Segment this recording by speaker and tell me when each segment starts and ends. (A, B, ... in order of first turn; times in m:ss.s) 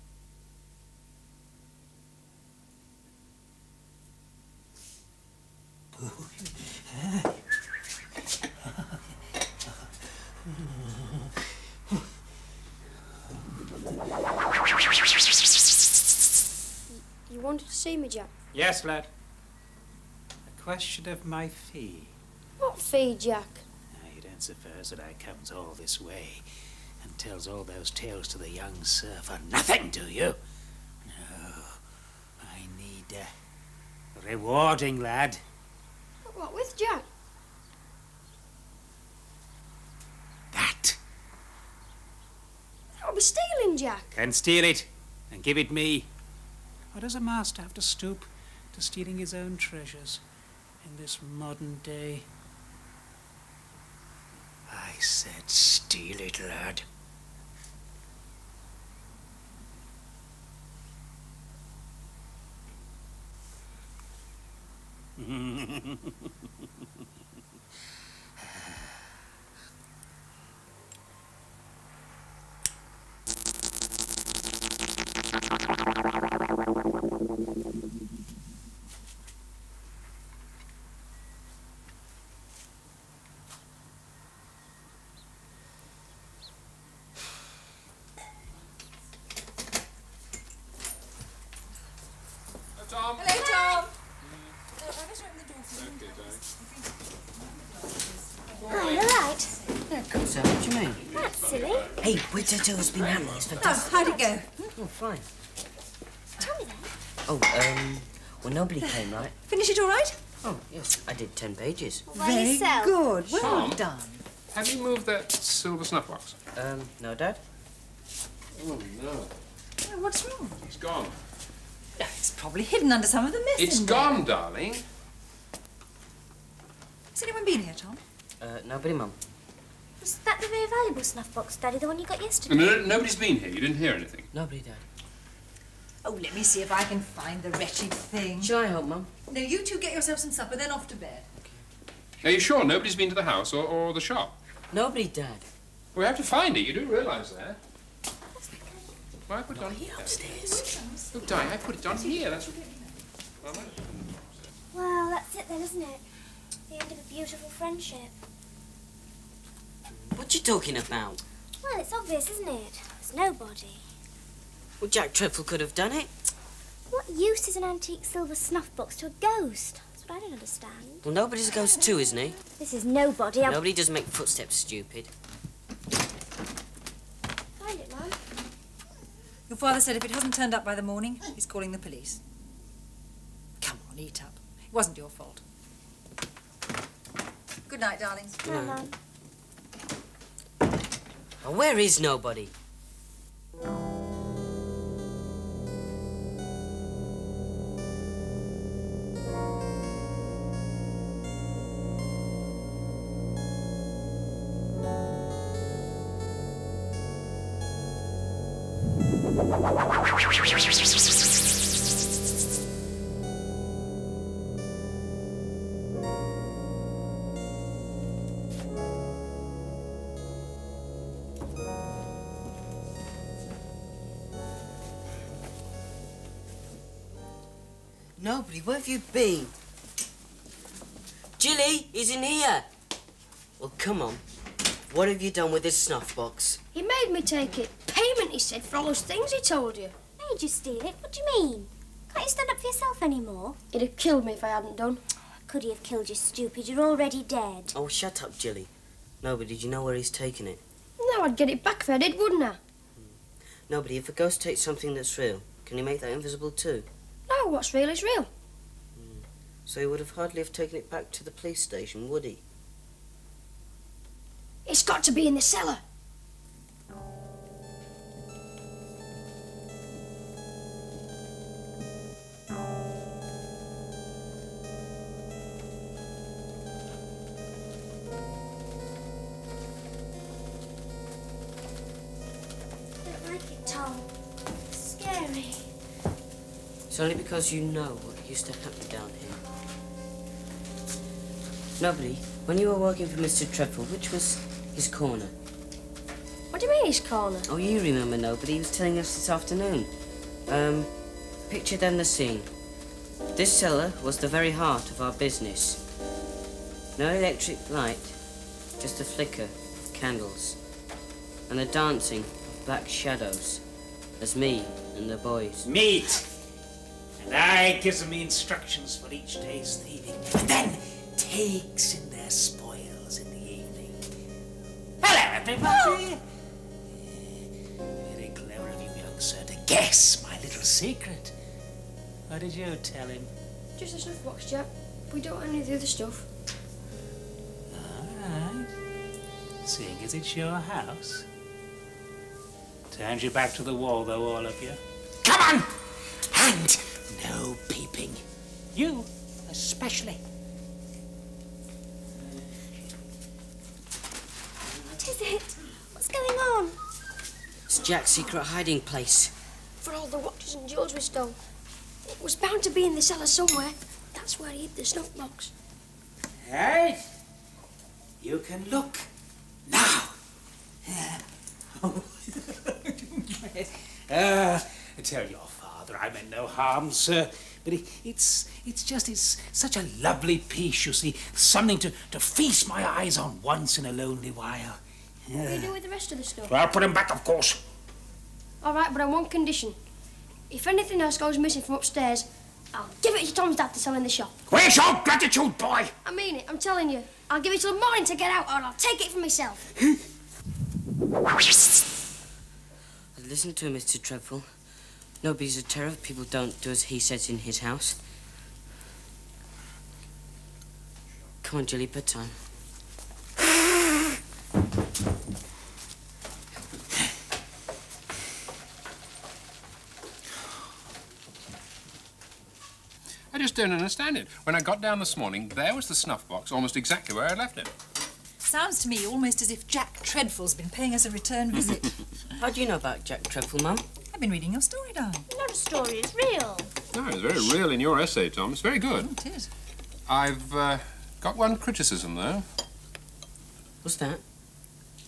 0:05.9-0:07.8 A
0:08.4-0:12.1 A
0:16.9-0:18.3 B
0:18.5-0:19.1 A
0:20.5-0:22.2 A
0:22.6-0:23.6 B
0:23.9-0:26.4 A
0:27.0-0:30.4 A
0:31.0-0:31.8 A
0:32.4-0:33.3 A
0:34.2-0:35.4 A
0:36.2-0:37.1 B
0:40.5-0:41.0 A
0:43.0-0:44.1 B
0:44.1-0:46.1 A
0:46.9-0:50.2 A
0:50.8-0:52.3 A
0:54.7-0:56.9 A
1:05.2-1:07.1 A
1:08.4-1:09.0 A
1:32.8-1:34.6 C
1:33.1-1:33.9 D
1:33.5-1:33.9 E
1:34.8-1:39.1 D
1:35.7-1:36.4 C
1:38.6-1:39.2 C
1:38.7-1:39.6 E
1:39.6-1:40.2 D
1:40.1-1:41.1 F
1:41.0-1:43.5 C
1:41.1-1:42.0 E
1:42.0-1:44.0 F
1:43.6-1:44.7 D
1:43.9-1:44.4 E
1:44.8-1:45.3 F
1:46.4-1:46.9 E
1:47.3-1:49.4 F
1:49.5-1:50.2 D
1:50.4-1:52.1 F
1:52.1-1:53.0 E
1:52.1-1:54.2 D
1:53.3-1:53.8 C
1:54.5-1:56.4 C
1:56.6-1:57.4 F
1:58.6-1:59.3 C
1:59.8-2:00.6 D
2:00.7-2:01.2 C
2:02.0-2:04.2 D
2:03.6-2:04.8 C
2:07.1-2:08.0 D
2:08.4-2:09.2 F
2:10.0-2:12.8 E
2:12.5-2:14.3 C
2:14.3-2:14.8 F
2:16.0-2:18.5 D
2:18.4-2:19.1 F
2:19.3-2:21.3 D
2:22.2-2:24.4 C
2:24.7-2:25.5 F
2:26.0-2:27.6 C
2:28.4-2:28.9 E
2:29.3-2:30.3 C
2:29.5-2:30.7 F
2:30.2-2:33.0 D
2:31.1-2:32.5 C
2:33.4-2:34.5 C
2:34.7-2:36.0 E
2:36.7-2:38.1 E
2:40.0-2:41.2 F
2:41.6-2:43.8 E
2:44.8-2:46.1 F
2:46.9-2:51.0 E
2:51.0-2:52.4 F
2:52.5-2:53.6 E
2:53.4-2:55.1 F
2:57.6-2:58.2 B
2:59.5-3:02.2 D
3:03.6-3:05.4 D
3:07.7-3:08.5 D
3:08.4-3:08.8 F
3:08.4-3:09.0 E
3:11.4-3:12.5 F
3:48.2-3:49.5 F
3:51.4-3:52.7 F
3:53.6-3:54.2 F
3:54.9-3:56.6 F
3:56.7-4:00.0 B
4:00.2-4:03.6 E
4:03.7-4:05.0 B
4:05.5-4:07.7 E
4:07.7-4:08.7 F
4:09.2-4:10.6 F
4:11.0-4:12.6 B
4:13.7-4:16.9 F
4:17.3-4:18.3 B
4:19.0-4:22.4 F
4:24.7-4:25.8 B
4:43.0-4:44.1 E
4:44.7-4:45.7 E
4:46.9-4:49.4 F
4:51.8-4:55.3 F
4:56.5-4:57.5 B
4:57.5-4:59.9 F
5:00.5-5:00.9 F
5:01.5-5:02.5 F
5:03.4-5:05.8 F
5:07.0-5:08.2 F
5:08.8-5:10.6 F
5:11.5-5:13.6 F
5:14.2-5:15.7 F
5:15.6-5:16.3 A
5:17.2-5:24.1 A
5:25.0-5:26.2 A
5:26.9-5:31.4 A
5:32.3-5:33.3 A
5:33.8-5:36.3 B
5:37.7-5:38.7 A
5:39.6-5:41.3 A
5:42.9-5:48.2 A
5:48.7-5:50.2 A
5:52.2-5:52.9 A
5:54.9-5:56.8 E
5:57.7-5:59.3 F
5:59.8-6:01.4 B
6:02.1-6:05.5 B
6:06.4-6:07.1 A
6:08.2-6:09.1 A
6:09.7-6:10.2 A
6:10.8-6:25.8 A
6:25.4-6:26.5 B
6:26.4-6:27.6 A
6:28.6-6:29.8 B
6:30.5-6:34.3 B
6:34.5-6:36.0 A
6:36.0-6:39.6 B
6:43.2-6:44.5 F
6:45.2-6:48.0 F
6:51.4-6:52.4 F
7:03.3-7:07.7 C
7:08.4-7:12.0 D
7:12.4-7:13.8 F
7:14.1-7:15.3 D
7:15.3-7:16.7 E
7:16.9-7:19.1 C
7:19.0-7:19.5 D
7:20.1-7:22.4 C
7:23.8-7:24.2 F